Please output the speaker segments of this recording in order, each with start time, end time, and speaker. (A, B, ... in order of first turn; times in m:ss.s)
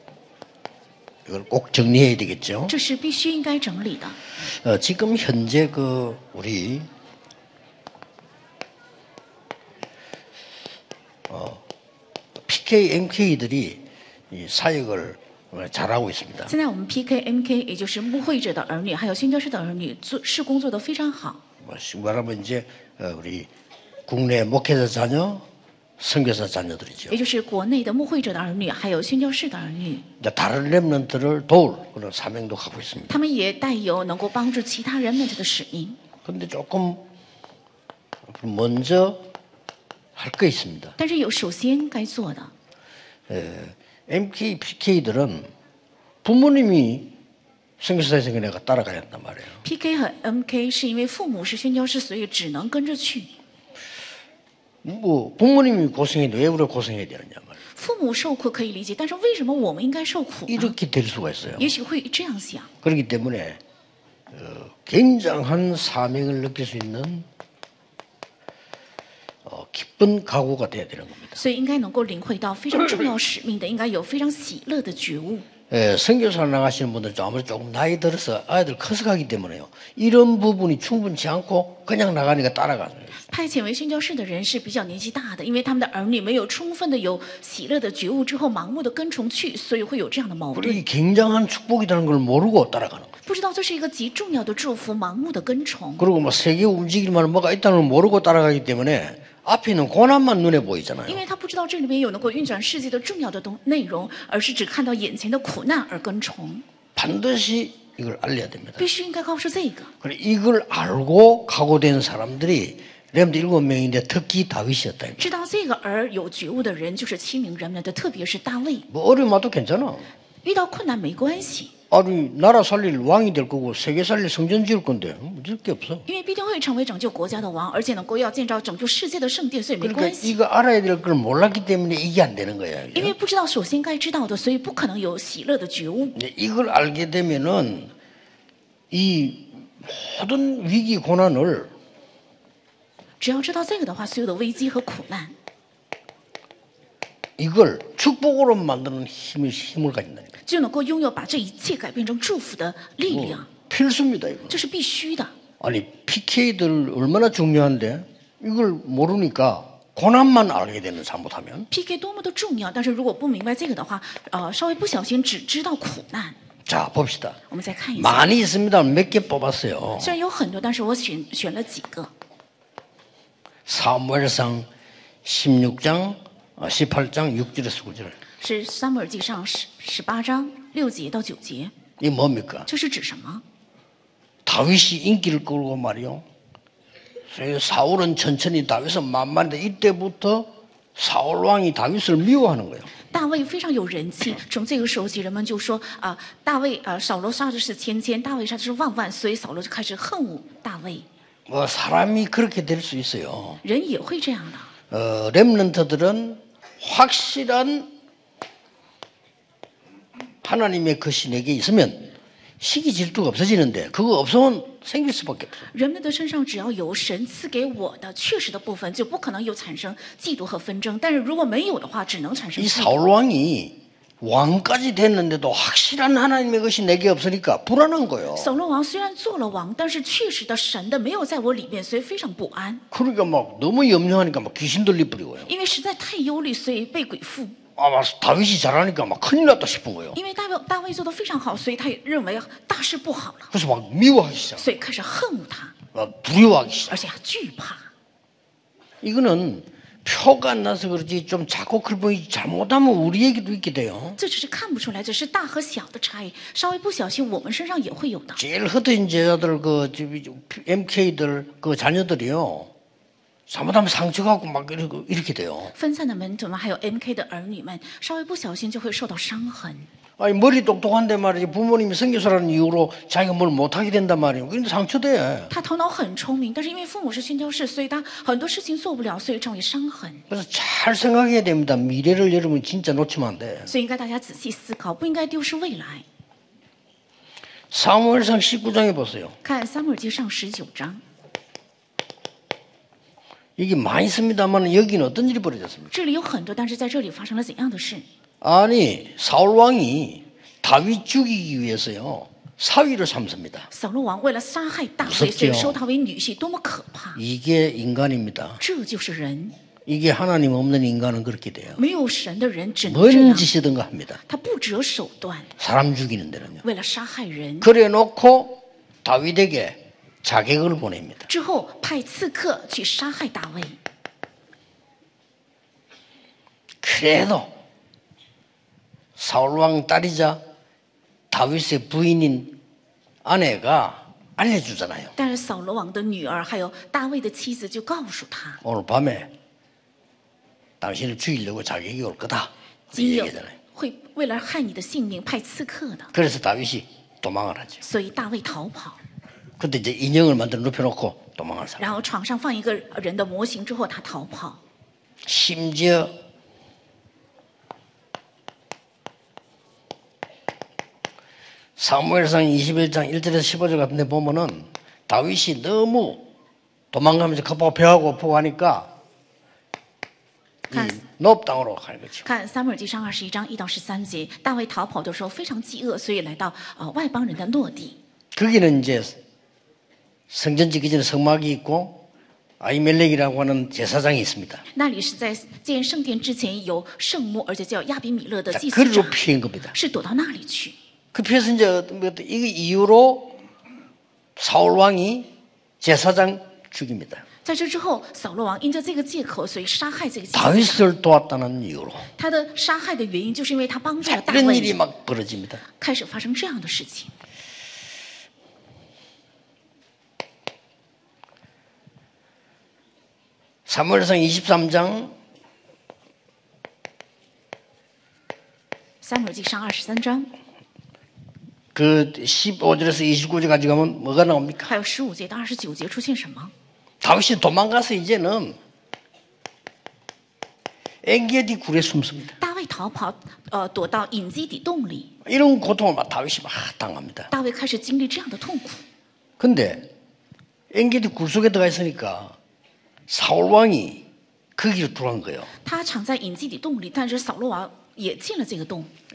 0:01.3-0:02.8 A
0:02.7-0:04.2 B
0:04.4-0:06.9 A
0:11.3-0:11.6 A
0:12.5-0:16.5 A
0:16.5-0:21.4 B
0:21.6-0:23.5 A
0:24.1-0:25.4 A
0:26.0-0:27.2 A
0:27.1-0:30.0 B
0:30.2-0:33.2 A
0:33.1-0:36.0 B
0:36.2-0:37.0 A
0:38.3-0:39.2 A
0:40.2-0:41.0 A
0:41.0-0:42.5 B
0:43.3-0:45.5 A
0:46.2-0:47.1 A
0:47.8-0:49.6 A
0:49.6-0:53.3 B
0:54.8-0:57.6 A
0:57.7-1:00.7 B
1:00.5-1:01.7 A
1:01.6-1:02.7 B
1:02.8-1:03.6 A
1:04.3-1:07.2 A
1:09.4-1:11.4 A
1:11.3-1:15.5 B
1:15.7-1:23.2 A
1:23.3-1:30.8 B
1:30.5-1:33.1 A
1:33.2-1:36.0 B
1:36.0-1:41.2 A
1:41.1-1:46.6 B
1:47.0-1:48.8 A
1:48.8-1:49.9 B
1:50.0-1:55.3 A
1:55.2-1:58.9 B
1:58.9-2:00.1 A
2:00.4-2:01.7 B
2:01.9-2:06.0 A
2:06.0-2:10.4 B
2:09.8-2:13.1 A
2:12.9-2:16.2 B
2:16.1-2:17.9 A
2:18.9-2:21.7 A
2:23.2-2:25.3 B
2:27.4-2:30.3 A
2:30.4-2:33.5 B
2:33.1-2:34.6 A
2:34.5-2:35.3 B
2:35.6-2:41.7 A
2:41.7-2:46.4 B
2:46.7-2:47.4 A
2:47.5-2:48.3 B
2:48.0-2:50.2 A
2:50.0-2:52.1 B
2:53.6-2:54.7 A
2:55.2-2:58.2 A
2:58.4-3:01.7 B
3:02.0-3:02.7 A
3:02.7-3:03.4 B
3:04.4-3:06.2 A
3:07.3-3:12.9 A
3:13.1-3:21.0 B
3:21.5-3:23.6 A
3:23.6-3:24.7 B
3:24.9-3:27.9 A
3:30.4-3:35.7 A
3:35.7-3:42.9 B
3:42.6-3:48.5 A
3:48.3-3:52.8 B
3:52.9-3:55.5 A
3:55.4-3:57.6 B
3:57.8-4:00.2 A
4:00.1-4:03.5 B
4:03.5-4:04.6 A
4:04.6-4:05.7 B
4:05.9-4:07.0 A
4:06.9-4:07.9 B
4:09.0-4:14.2 A
4:14.2-4:18.4 B
4:18.4-4:22.7 A
4:23.5-4:25.7 A
4:25.7-4:29.9 B
4:30.2-4:35.5 A
4:35.5-4:40.2 B
4:40.3-4:43.7 A
4:43.7-4:46.0 B
4:47.7-4:49.4 A
4:49.4-4:51.0 B
4:53.6-4:55.9 A
4:55.9-4:58.0 B
4:58.4-5:03.7 A
5:03.7-5:07.2 B
5:05.0-5:05.8 A
5:07.1-5:08.6 A
5:08.6-5:09.5 B
5:09.8-5:11.8 A
5:11.8-5:13.5 B
5:12.9-5:14.2 A
5:14.3-5:15.5 B
5:15.6-5:16.6 A
5:16.6-5:17.7 B
5:17.6-5:21.3 A
5:21.3-5:23.8 B
5:26.8-5:27.5 A
5:29.2-5:30.4 A
5:31.3-5:32.6 A
5:33.2-5:35.1 A
5:35.2-5:38.6 B
5:38.6-5:39.3 A
5:40.8-5:43.5 A
5:42.9-5:46.1 B
5:46.1-5:47.8 A
5:47.8-5:49.0 B
5:49.6-5:52.0 A
5:51.8-5:54.6 B
5:55.2-5:56.1 A
6:01.8-6:06.2 A
6:06.9-6:08.9 A
6:10.7-6:12.2 A
6:10.7-6:11.0 B
6:12.2-6:18.0 B
6:18.3-6:19.2 A
6:20.3-6:22.0 A
6:22.6-6:24.6 A
6:24.7-6:29.2 B
6:28.5-6:29.7 A
6:29.7-6:30.7 B
6:31.1-6:33.3 A
6:34.4-6:35.3 A
6:35.8-6:37.2 A
6:37.4-6:40.8 B
6:40.3-6:42.1 A
6:42.2-6:44.8 B
6:44.0-6:45.6 A
6:45.8-6:47.1 B
6:53.7-6:55.1 A
6:59.0-7:00.3 B
7:01.7-7:04.7 A
7:04.6-7:06.5 B
7:07.0-7:08.6 A
7:11.0-7:12.3 A
7:12.4-7:15.1 B
7:15.2-7:17.3 A
7:17.3-7:18.8 B
7:19.4-7:19.9 A
7:20.7-7:22.4 A
7:23.1-7:24.0 A
7:24.6-7:25.5 A
7:25.6-7:28.9 B